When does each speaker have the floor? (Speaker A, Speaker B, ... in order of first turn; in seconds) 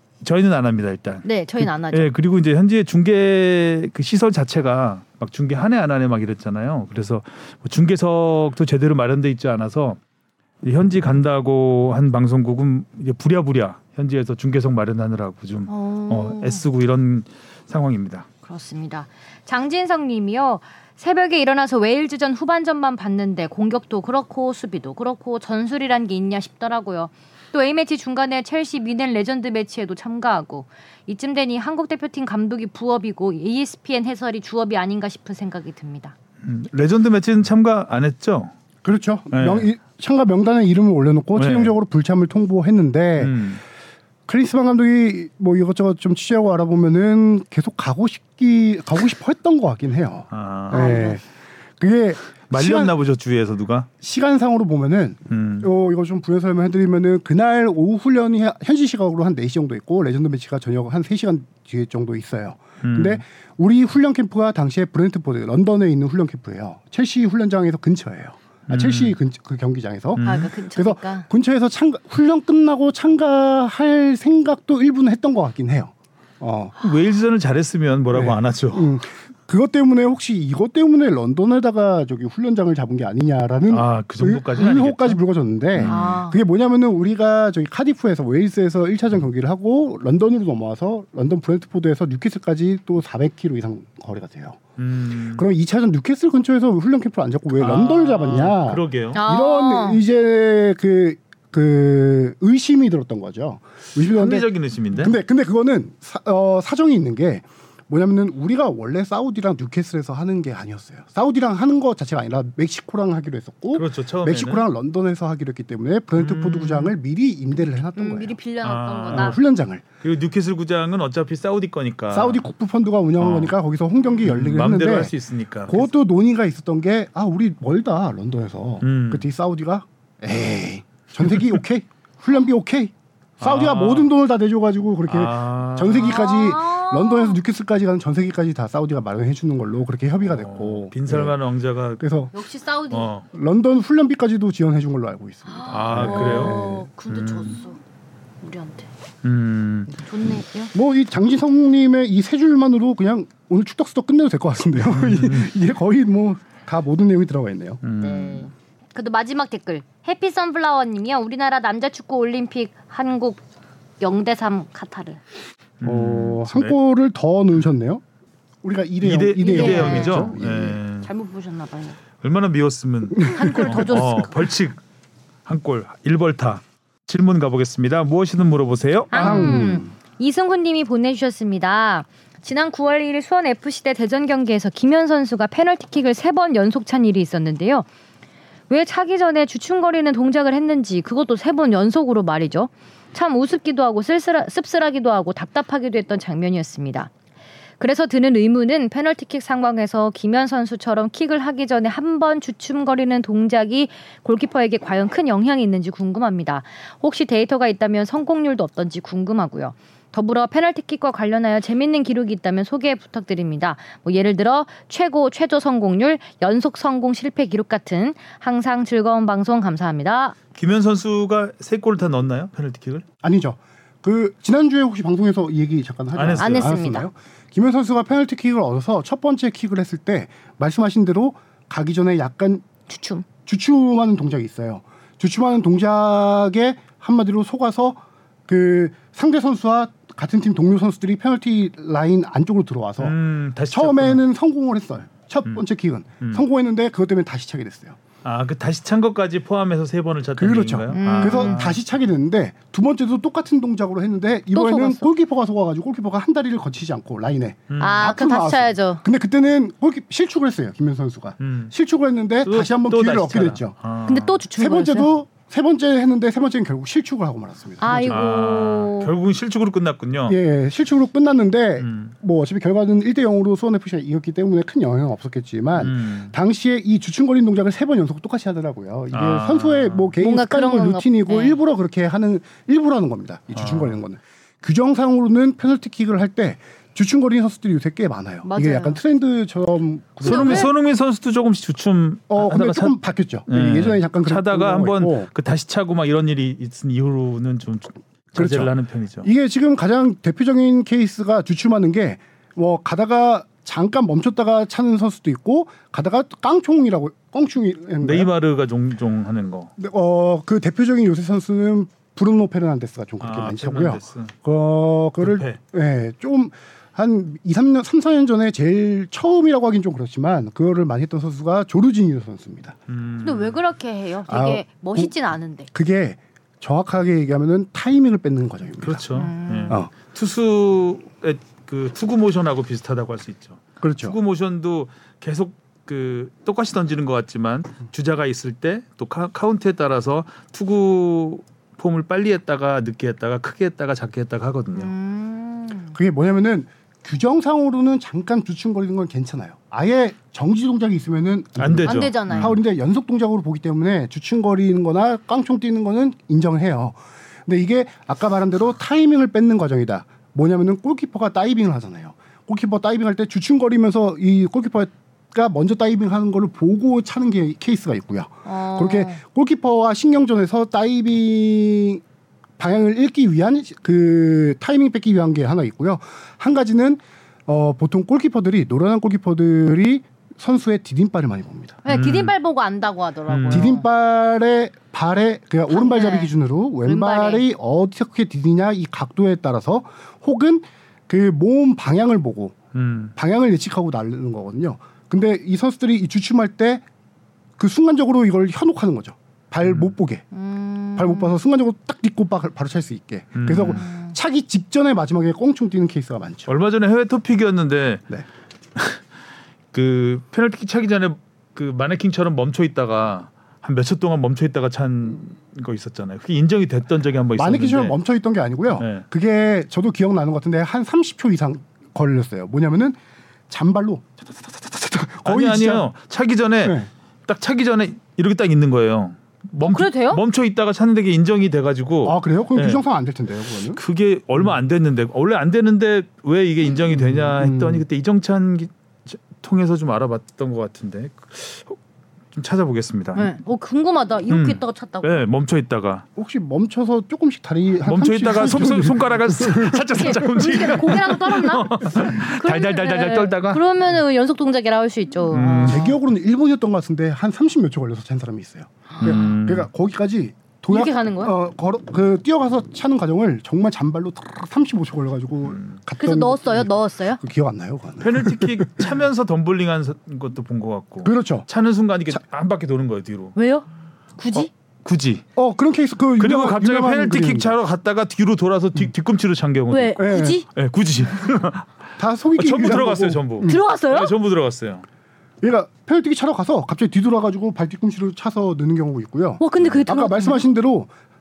Speaker A: 0.2-10.0, 10.6-18.3, 36.4-38.5, 39.3-39.7, 41.4-41.7, 43.2-43.6, 50.3-51.0, 52.5-53.9, 55.3-55.7, 62.8-63.2, 68.7-69.2, 70.2-70.5, 76.8-78.9, 83.7-85.2, 85.7-86.0, 94.8-95.5, 97.5-99.2, 104.0-105.2, 113.7-114.6, 116.2-116.9, 118.6-119.4, 120.0-122.4, 123.2-123.5, 124.2-125.9, 128.8-129.3, 133.4-134.1, 135.1-136.2, 140.3-142.0, 142.9-143.2, 145.7-147.6, 149.2-149.9, 154.9-155.5, 157.8-158.5, 165.8-166.7, 169.0-171.1, 172.2-174.8, 175.4-179.6, 220.5-223.0, 226.1-226.7, 243.0-244.2, 248.2-251.8, 257.7-258.1, 261.4-261.7, 262.4-264.4, 268.1-270.4, 271.8-272.1, 275.8-276.3, 279.1-280.1, 283.5-284.0, 290.2-299.3, 308.0-309.7, 313.2-314.3, 315.2-315.6, 322.9-323.6, 328.8-344.9, 351.6-352.6, 381.9-382.3, 383.3-383.7, 392.7-393.1, 399.6-399.9, 403.3-403.9, 406.5-408.0, 408.7-409.0, 409.7-417.9, 418.8-419.0, 425.2-432.8, 433.7-441.8, 442.3-443.3, 444.3-446.0, 447.8-453.6, 455.3-455.9, 459.0-459.7, 465.5-465.8, 468.0-473.4, 474.3-475.2, 476.2-481.7, 482.3-484.8
Speaker B: 1.2-2.1, 15.7-16.6, 18.4-36.1, 50.7-51.2, 70.2-71.3, 85.8-86.4, 99.1-100.0, 118.0-119.4, 136.0-137.4, 142.3-143.1, 145.5-147.8, 148.4-148.9, 150.0-150.7, 158.0-163.4, 164.0-165.2, 169.4-170.3, 171.0-172.0, 173.2-174.5, 179.1-187.8, 188.7-197.1, 197.8-220.3, 226.3-227.1, 232.9-233.2, 250.9-251.6, 254.5-255.1, 257.8-259.0, 264.1-265.1, 267.8-269.1, 280.2-281.6, 288.4-289.0, 290.2-290.7, 323.2-325.7, 329.1-329.8, 344.7-345.9, 351.8-352.6, 368.4-369.2, 381.8-383.9, 385.7-386.3, 386.8-387.4, 400.3-401.4, 403.8-404.1, 429.6-430.2, 443.1-445.2, 449.9-455.9, 458.9-459.2, 460.7-461.3, 466.0-467.2, 473.3-473.6, 474.2-474.5, 479.7-480.4, 483.4-484.1, 489.4-490.5
Speaker C: 38.8-43.4, 44.3-51.2, 51.8-52.9, 54.0-76.7, 78.1-94.6, 95.3-104.5, 105.0-118.4, 119.1-119.8, 122.1-125.1, 125.7-141.4, 142.0-142.3, 143.3-146.9, 150.7-157.8, 165.8-168.0, 168.6-170.8, 173.2-174.0, 179.1-179.9, 223.2-232.6, 233.4-243.2, 243.7-248.0, 250.4-263.8, 264.5-268.2, 270.3-290.7, 292.3-295.3, 298.3-298.7, 299.2-308.3, 309.8-322.8, 324.3-325.1, 325.7-329.0, 333.8-334.2, 345.9-372.0, 372.6-381.8, 383.5-392.6, 393.1-396.8, 397.6-400.2, 400.9-406.5, 417.4-423.0, 423.5-425.9, 426.6-426.9, 432.0-433.8, 436.9-437.8, 446.1-450.4, 455.6-468.9, 471.0-471.5, 475.4-477.6, 480.0-480.4, 482.0-483.6, 485.4-490.9